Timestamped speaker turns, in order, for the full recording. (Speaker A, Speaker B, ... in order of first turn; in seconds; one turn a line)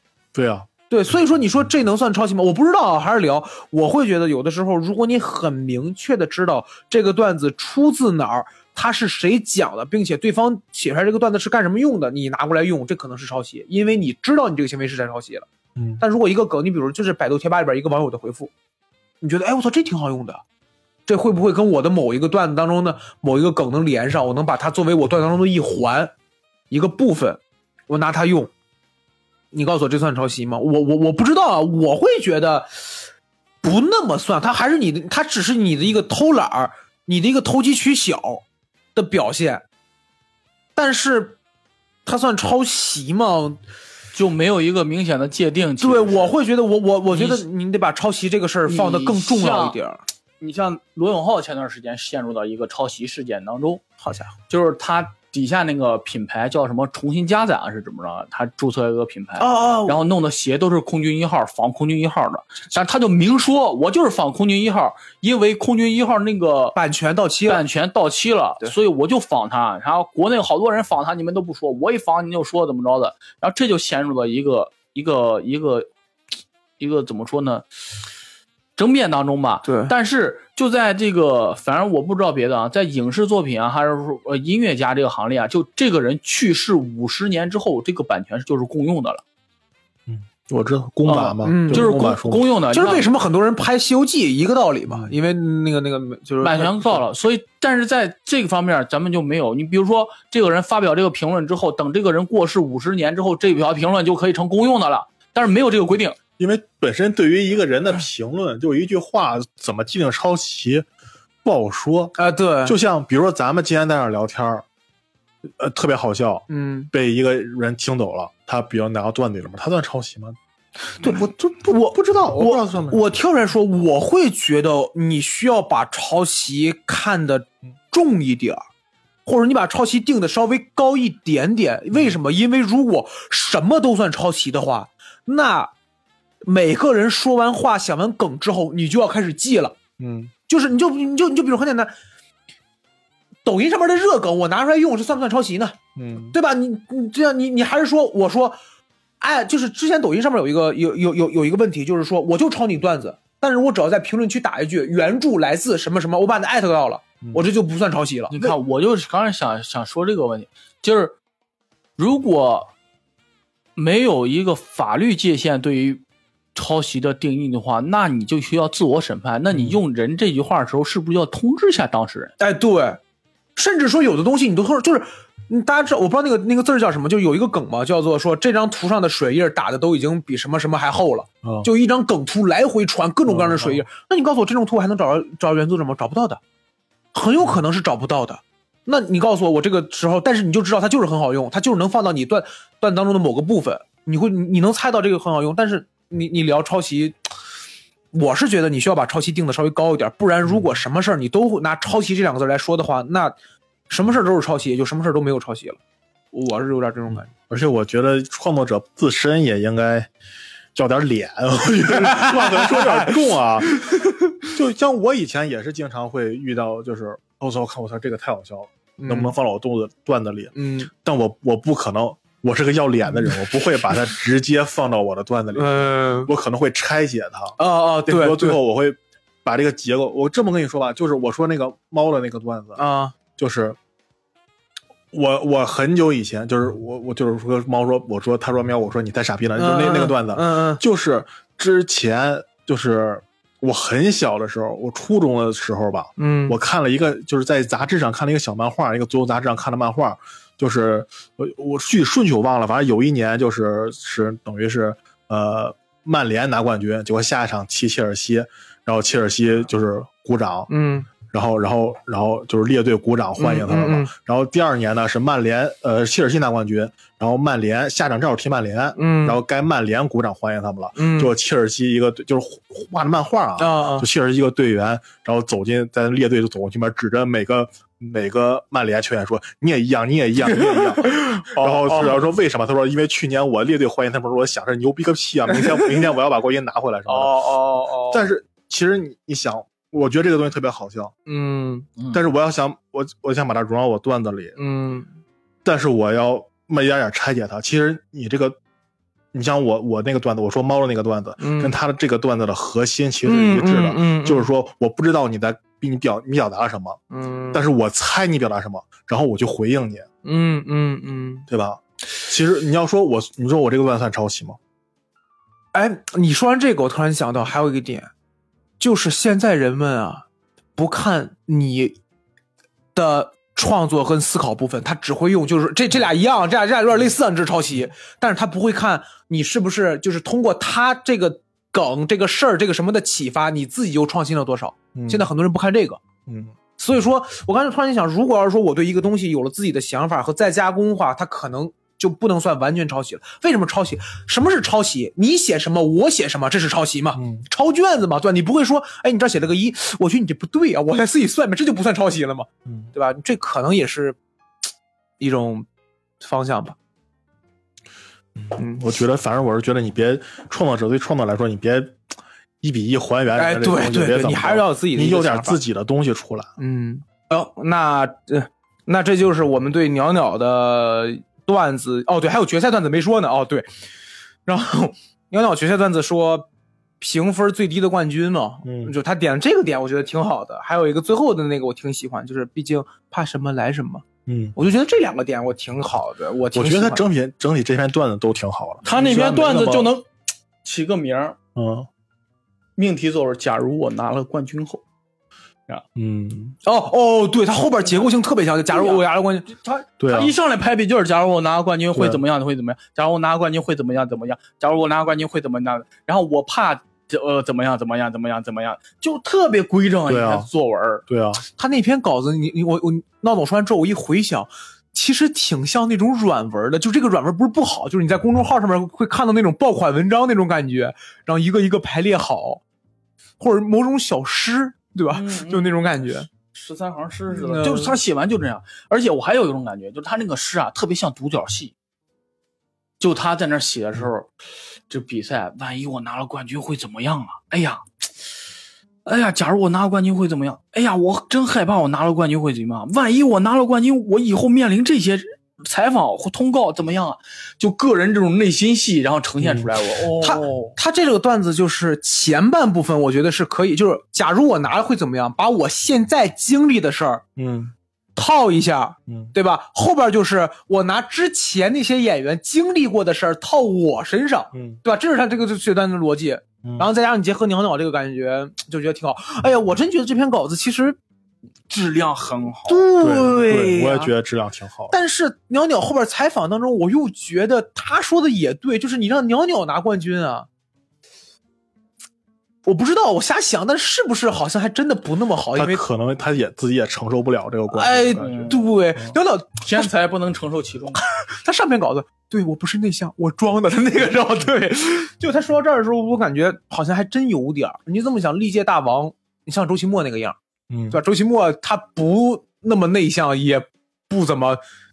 Speaker A: 0.3-0.7
Speaker B: 0.9-15.5
Speaker A: 15.8-16.0
Speaker B: 16.0-18.5
Speaker B: 19.2-20.4
Speaker B: 21.1-26.1
Speaker B: 26.7-28.5
Speaker B: 29.5-33.0
Speaker B: 33.6-39.6
Speaker B: 40.8-41.4
Speaker B: 42.0-43.6
Speaker C: 44.1-46.3
Speaker B: 45.8-50.0
Speaker C: 47.1-47.4
Speaker C: 48.7-49.8
Speaker C: 50.4-53.9
Speaker B: 54.0-54.3
Speaker C: 54.5-66.8
Speaker B: 59.4-60.0
Speaker B: 66.8-67.6
Speaker C: 67.5-75.9
Speaker C: 76.8-77.7
Speaker C: 78.8-89.2
Speaker B: 79.7-79.9
Speaker A: 90.1-92.4
Speaker C: 91.1-93.1
Speaker B: 91.4-92.1
Speaker B: 92.7-97.0
Speaker C: 96.4-106.2
Speaker A: 106.4-110.9
Speaker A: 111.4-114.7
Speaker B: 112.2-112.8
Speaker A: 115.5-120.4
Speaker B: 116.5-116.9
Speaker B: 121.0-128.6
Speaker A: 121.0-123.0
Speaker B: 129.3-135.7
Speaker B: 136.4-139.8
Speaker A: 140.0-140.3
Speaker B: 140.5-141.9
Speaker B: 143.4-148.6
Speaker A: 146.0-146.3
Speaker B: 149.2-158.6
Speaker C: 158.3-161.2
Speaker C: 162.0-162.7
Speaker C: 163.8-166.0
Speaker C: 166.6-172.3
Speaker B: 172.4-173.0
Speaker B: 173.6-186.4
Speaker A: 181.4-181.7
Speaker A: 183.3-183.8
Speaker B: 187.1-197.2
Speaker B: 198.1-203.4
Speaker B: 203.9-205.8
Speaker B: 206.3-207.3
Speaker A: 207.5-210.1
Speaker A: 210.8-213.9
Speaker B: 211.9-213.2
Speaker B: 213.7-214.5
Speaker A: 214.5-232.8
Speaker B: 219.0-219.3
Speaker B: 220.6-220.9
Speaker B: 225.5-226.3
Speaker B: 227.6-228.6
Speaker B: 232.8-233.1
Speaker A: 233.4-233.8
Speaker A: 235.1-260.7
Speaker B: 239.6-240.8
Speaker B: 246.2-246.6
Speaker B: 260.7-261.1
Speaker A: 261.2-287.4
Speaker B: 263.4-264.1
Speaker B: 269.0-269.4
Speaker B: 271.0-271.3
Speaker B: 273.6-274.1
Speaker B: 280.5-282.2
Speaker B: 285.5-285.9
Speaker B: 287.1-288.2
Speaker A: 288.1-291.1
Speaker B: 291.3-291.9
Speaker A: 292.1-294.6
Speaker B: 294.6-295.1
Speaker A: 295.6-298.6
Speaker A: 299.3-307.0
Speaker B: 301.4-301.7
Speaker B: 303.2-304.5
Speaker B: 307.1-307.6
Speaker A: 307.5-310.1
Speaker B: 310.2-311.5
Speaker A: 311.5-314.6
Speaker B: 315.7-318.1
Speaker B: 318.8-320.3
Speaker B: 320.8-322.0
Speaker B: 322.9-336.0
Speaker A: 334.9-335.3
Speaker A: 336.3-336.5
Speaker B: 336.8-354.2
Speaker A: 347.1-347.5
Speaker B: 355.2-355.7
Speaker B: 356.2-356.8
Speaker A: 358.4-362.0
Speaker B: 358.6-358.9
Speaker A: 362.6-366.5
Speaker B: 363.4-365.6
Speaker B: 366.6-373.7
Speaker B: 374.5-376.5
Speaker B: 377.0-387.0
Speaker A: 378.6-378.9
Speaker A: 384.3-384.6
Speaker A: 386.5-389.9
Speaker C: 388.9-390.1
Speaker C: 390.6-391.4
Speaker A: 391.6-391.9
Speaker C: 392.8-394.8
Speaker A: 396.0-396.6
Speaker B: 396.6-399.6
Speaker C: 398.7-399.0
Speaker C: 399.6-411.0
Speaker A: 400.0-400.3
Speaker A: 401.9-402.2
Speaker A: 410.1-410.5
Speaker A: 411.1-411.4
Speaker B: 411.6-422.6
Speaker B: 423.4-426.3
Speaker C: 425.1-431.7
Speaker B: 427.3-428.0
Speaker C: 433.0-434.3
Speaker C: 434.9-438.3
Speaker C: 439.1-450.8
Speaker A: 449.4-449.7
Speaker B: 450.2-457.2
Speaker A: 457.4-457.7
Speaker B: 458.2-471.0
Speaker A: 459.1-459.3
Speaker A: 464.5-464.8
Speaker C: 471.7-472.9
Speaker B: 472.7-474.1
Speaker A: 473.0-474.9
Speaker B: 474.9-480.5
Speaker B: 482.6-485.8
Speaker A: 485.6-489.1
Speaker B: 487.7-489.9
Speaker C: 488.0-488.6
Speaker C: 489.6-491.0
Speaker B: 491.0-500.4
Speaker A: 500.7-501.0
Speaker B: 500.9-504.6